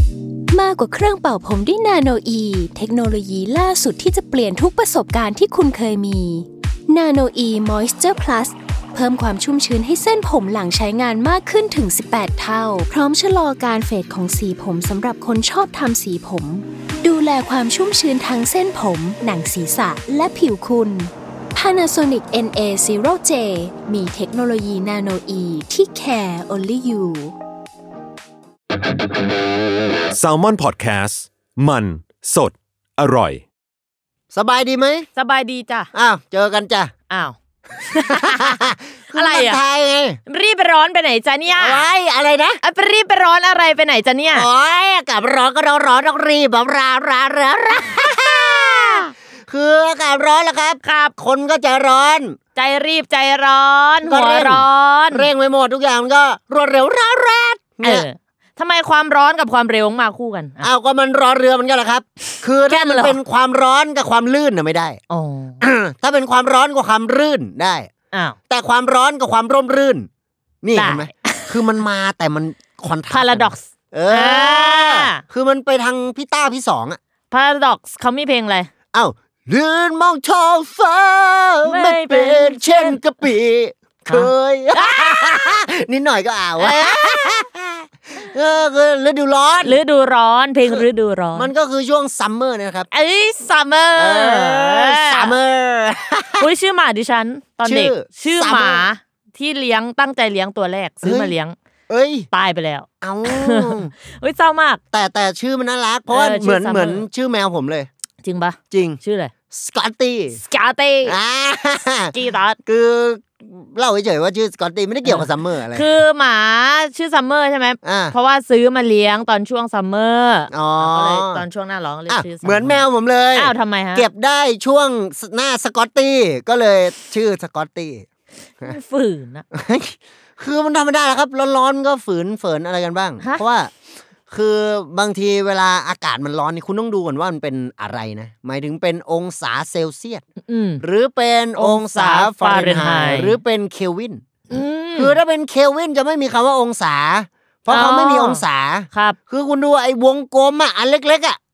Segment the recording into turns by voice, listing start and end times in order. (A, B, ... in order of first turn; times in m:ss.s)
0:00.5-0:27.3 A
0:30.1-0:33.4 B
0:34.3-0:35.1 C
0:35.1-0:35.9 D
0:35.9-0:36.9 C
0:37.1-0:39.6 D
0:38.1-0:40.2 C
0:40.3-0:41.9 D
0:41.5-0:42.6 C
0:42.6-0:44.5 D
0:44.3-0:52.4 C
0:50.8-0:51.1 D
0:52.6-0:55.3 D
0:54.0-0:58.0 C
0:57.8-1:00.7 D
1:00.6-1:05.0 C
1:02.6-1:03.2 D
1:05.1-1:05.6 D
1:05.6-1:07.9 C
1:08.1-1:08.4 D
1:08.5-1:10.1 C
1:10.6-1:17.0 C
1:10.7-1:11.8 D
1:13.1-1:15.2 D
1:17.3-1:18.7 D
1:18.9-1:29.8 C
1:21.6-1:23.0 D
1:24.1-1:25.6 D
1:26.6-1:27.4 D
1:29.6-1:31.5 D
1:30.7-1:32.9 C
1:32.9-1:35.3 D
1:34.0-1:36.5 C
1:36.4-1:41.6 D
1:37.6-1:38.9 C
1:41.0-1:41.3 C
1:41.9-1:42.3 C
1:42.3-1:44.8 D
1:43.0-1:43.9 C
1:44.9-1:47.9 C
1:46.1-1:47.0 D
1:48.2-1:49.3 D
1:48.7-1:49.0 C
1:49.5-1:50.4 C
1:50.4-1:51.2 D
1:51.1-1:56.0 C
1:52.1-1:52.6 D
1:55.0-2:02.8 D
1:57.8-1:58.2 C
2:00.5-2:01.5 C
2:02.1-2:08.0 C
2:03.3-2:04.1 D
2:08.6-2:09.4 D
2:09.5-2:13.7 C
2:14.3-2:20.2 C
2:20.4-2:20.8 D
2:20.8-2:24.2 C
2:21.6-2:23.4 D
2:24.5-2:25.2 D
2:25.0-2:31.4 C
2:27.7-2:29.2 D